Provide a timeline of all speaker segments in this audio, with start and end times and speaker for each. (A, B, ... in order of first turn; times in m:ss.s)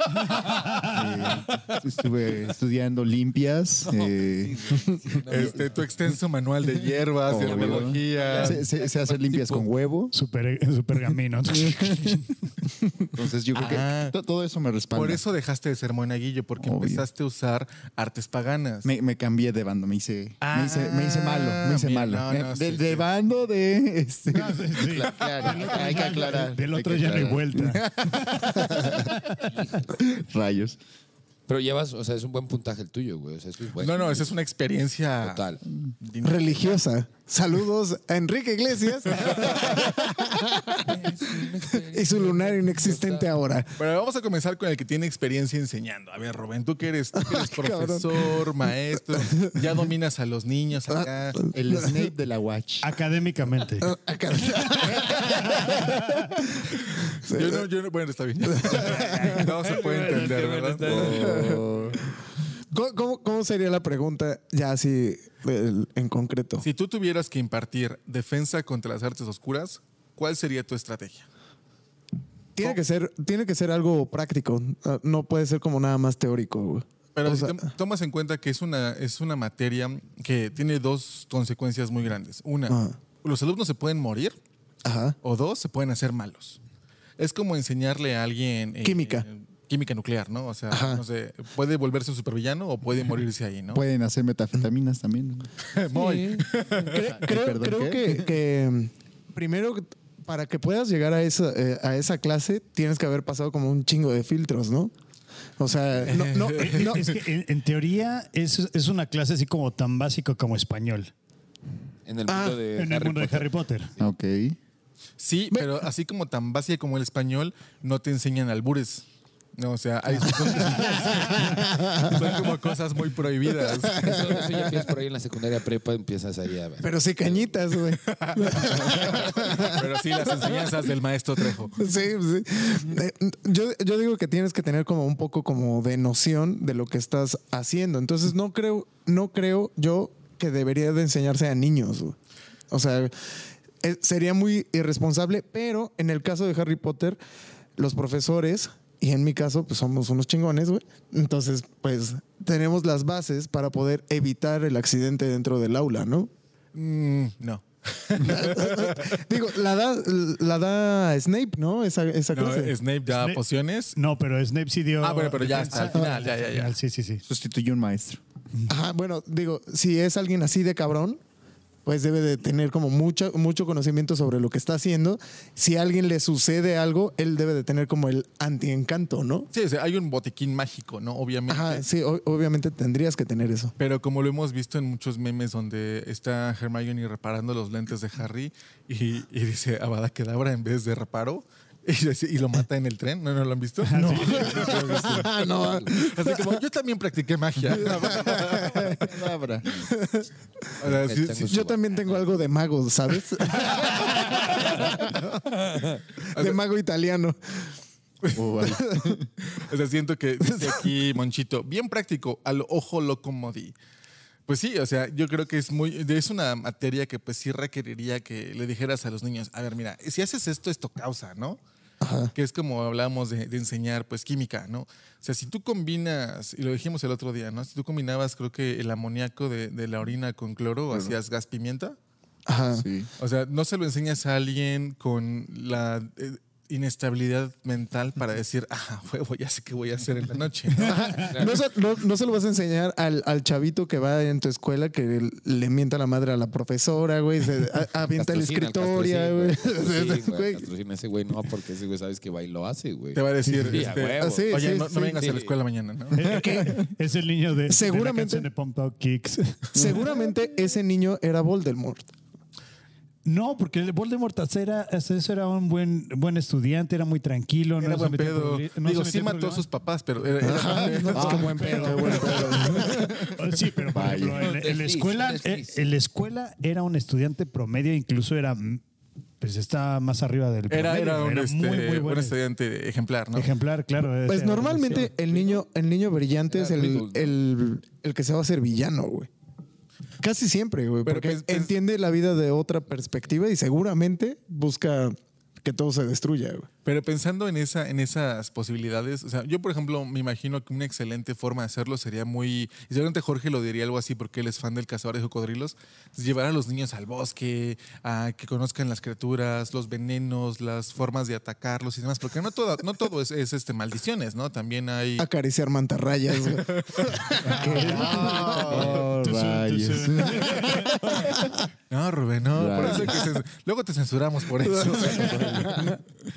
0:00.4-0:00.9 A
0:00.8-0:04.8 B
0:03.9-0:06.0 C
0:05.2-0:08.6 D
0:07.2-0:10.1 B
0:07.3-0:09.7 C
0:10.1-0:12.3 A
0:11.5-0:12.2 B
0:13.1-0:15.2 B
0:13.6-0:14.1 D
0:14.9-0:18.9 D
0:16.6-0:17.1 B
0:18.8-0:29.1 B
0:20.4-0:23.1 D
0:24.3-0:29.5 A
0:29.4-0:30.0 C
0:30.0-0:30.8 B
0:31.5-0:34.3 C
0:33.8-0:35.5 D
0:35.2-0:35.6 C
0:36.0-0:36.6 D
0:36.2-0:40.9 E
0:40.8-0:43.3 C
0:41.9-0:43.8 E
0:43.8-0:51.4 D
0:47.2-0:48.4 E
0:49.2-0:49.6 E
0:51.4-0:52.0 E
0:51.5-0:52.9 B
0:52.8-0:53.9 A
0:53.8-0:56.7 E
0:55.6-0:56.2 A
0:56.8-1:01.1 D
0:57.3-0:57.6 E
0:58.5-0:59.5 E
0:58.7-1:02.0 C
1:00.8-1:02.0 B
1:01.0-1:01.6 E
1:02.7-1:06.7 E
1:06.6-1:11.3 D
1:12.6-1:17.6 E
1:17.1-1:24.4 D
1:22.7-1:23.0 E
1:24.8-1:25.2 E
1:25.2-1:26.6 D
1:27.2-1:33.8 D
1:28.8-1:29.2 E
1:30.7-1:31.0 E
1:33.7-1:35.5 B
1:35.7-1:37.1 D
1:35.9-1:36.5 C
1:36.8-1:44.9 E
1:37.2-1:38.2 B
1:45.6-1:47.0 E
1:46.0-1:47.1 D
1:46.5-1:51.1 A
1:52.1-1:54.1 C
1:52.3-1:52.6 E
1:52.8-1:53.9 A
1:54.0-1:54.6 B
1:55.2-2:04.4 D
2:00.4-2:02.6 E
2:01.0-2:01.4 A
2:03.6-2:04.7 E
2:04.0-2:07.6 C
2:06.8-2:10.7 E
2:08.0-2:11.8 D
2:08.6-2:09.3 C
2:11.7-2:22.2 E
2:22.7-2:27.2 E
2:27.8-2:36.3 E
2:36.7-2:39.2 D
2:38.2-2:42.8 E
2:42.3-2:44.0 D
2:43.1-2:43.4 A
2:44.0-2:47.2 A
2:45.0-2:46.8 D
2:47.2-2:48.2 B
2:48.7-2:51.2 E
2:51.8-2:59.5 E
2:59.5-3:01.8 D
3:01.5-3:03.8 E
3:03.8-3:15.3 D
3:13.8-3:14.8 A
3:14.0-3:16.6 E
3:15.5-3:15.9 C
3:15.9-3:19.0 D
3:17.8-3:19.1 E
3:18.0-3:19.7 B
3:19.7-3:20.3 E
3:20.8-3:21.6 D
3:20.8-3:22.4 C
3:21.5-3:25.8 E
3:23.7-3:25.1 C
3:25.6-3:26.0 C
3:26.3-3:26.6 D
3:26.3-3:27.7 E
3:28.2-3:28.8 D
3:28.3-3:29.3 B
3:28.6-3:29.2 E
3:29.4-3:33.8 D
3:34.5-3:41.6 D
3:42.0-3:42.3 E
3:42.4-3:52.0 D
3:52.5-3:52.8 E
3:52.7-3:53.1 B
3:53.2-4:01.3 D
4:00.8-4:10.7 E
4:00.9-4:01.6 C
4:08.1-4:15.6 C
4:13.1-4:16.4 D
4:13.5-4:13.8 B
4:14.2-4:15.3 E
4:16.1-4:20.0 A
4:16.2-4:16.9 E
4:17.7-4:18.5 E
4:19.7-4:22.1 E
4:23.2-4:29.6 A
4:27.8-4:33.1 D
4:30.4-4:33.1 E
4:30.8-4:33.3 B
4:31.4-4:38.8 A
4:33.9-4:34.6 B
4:34.4-4:35.9 C
4:39.4-4:42.4 A
4:40.7-4:43.5 D
4:43.3-4:45.1 A
4:44.2-4:49.3 E
4:44.9-4:45.6 C
4:46.5-4:47.4 C
4:50.2-4:56.7 E
4:51.0-4:51.7 D
4:56.8-5:15.2 D
5:15.2-5:18.8 E
5:16.4-5:19.1 D
5:17.4-5:21.3 A
5:17.6-5:21.4 B
5:21.9-5:26.0 D
5:22.5-5:23.3 B
5:24.6-5:26.0 E